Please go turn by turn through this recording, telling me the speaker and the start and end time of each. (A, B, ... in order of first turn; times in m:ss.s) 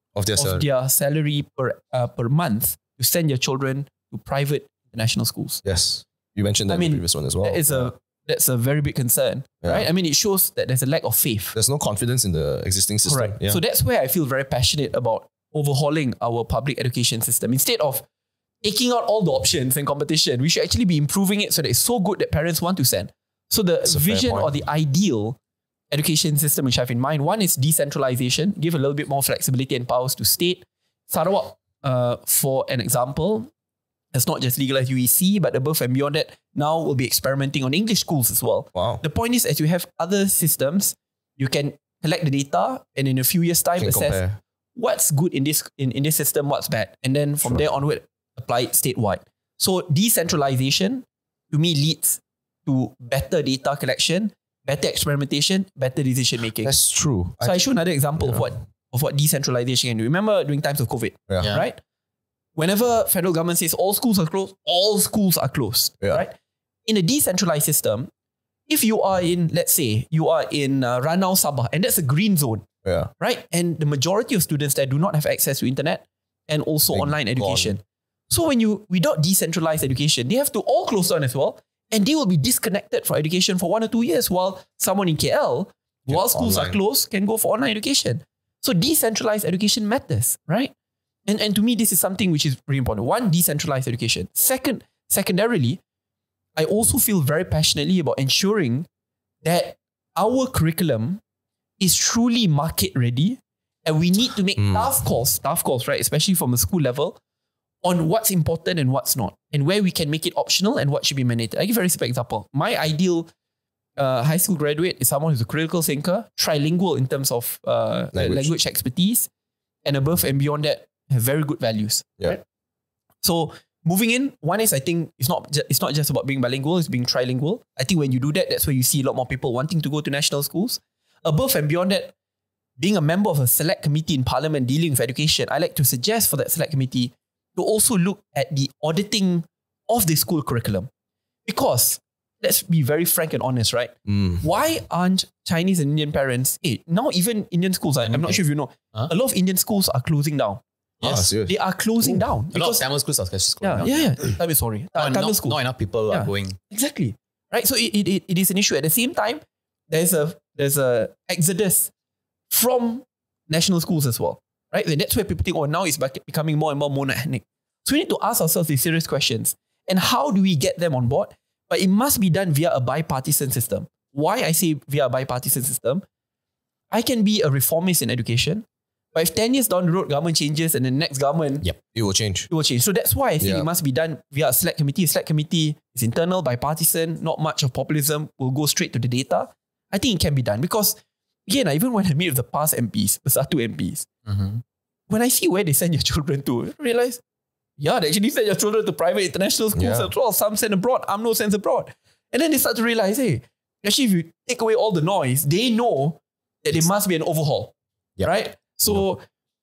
0:00.1-0:00.7 A
0:00.4-0:05.6 B
0:05.6-0:07.9 A
0:06.7-0:11.6 B
0:11.5-0:13.6 A
0:13.0-0:18.0 B
0:18.6-0:25.4 B
0:23.8-0:24.6 A
0:25.9-0:33.5 B
0:34.1-0:44.2 B
0:38.7-0:39.0 A
0:43.8-0:44.4 A
0:44.8-0:56.7 B
0:56.6-0:58.5 A
0:57.4-1:01.8 B
1:02.6-1:06.3 B
1:06.8-1:08.1 B
1:08.7-1:12.6 B
1:12.8-1:13.1 A
1:13.2-1:30.7 B
1:16.9-1:17.8 A
1:26.1-1:26.8 A
1:31.2-1:35.8 B
1:36.6-1:38.9 B
1:39.4-1:41.2 B
1:41.8-1:47.2 B
1:44.6-1:44.9 A
1:47.8-1:53.3 B
1:54.0-1:59.3 B
1:58.1-1:58.5 A
1:59.8-2:02.4 B
2:03.2-2:12.1 B
2:12.8-2:20.9 B
2:21.4-2:32.8 B
2:24.0-2:24.4 A
2:28.1-2:28.4 C
2:31.0-2:31.2 C
2:31.0-2:32.2 A
2:32.5-2:34.4 C
2:33.6-2:35.6 B
2:35.0-2:36.6 C
2:36.1-2:41.9 B
2:42.5-2:56.0 B
2:56.9-3:01.6 B
3:01.6-3:02.5 A
3:02.5-3:14.1 B
3:03.4-3:03.7 A
3:14.2-3:14.6 C
3:15.1-3:17.2 B
3:17.8-3:29.2 B
3:19.8-3:20.1 A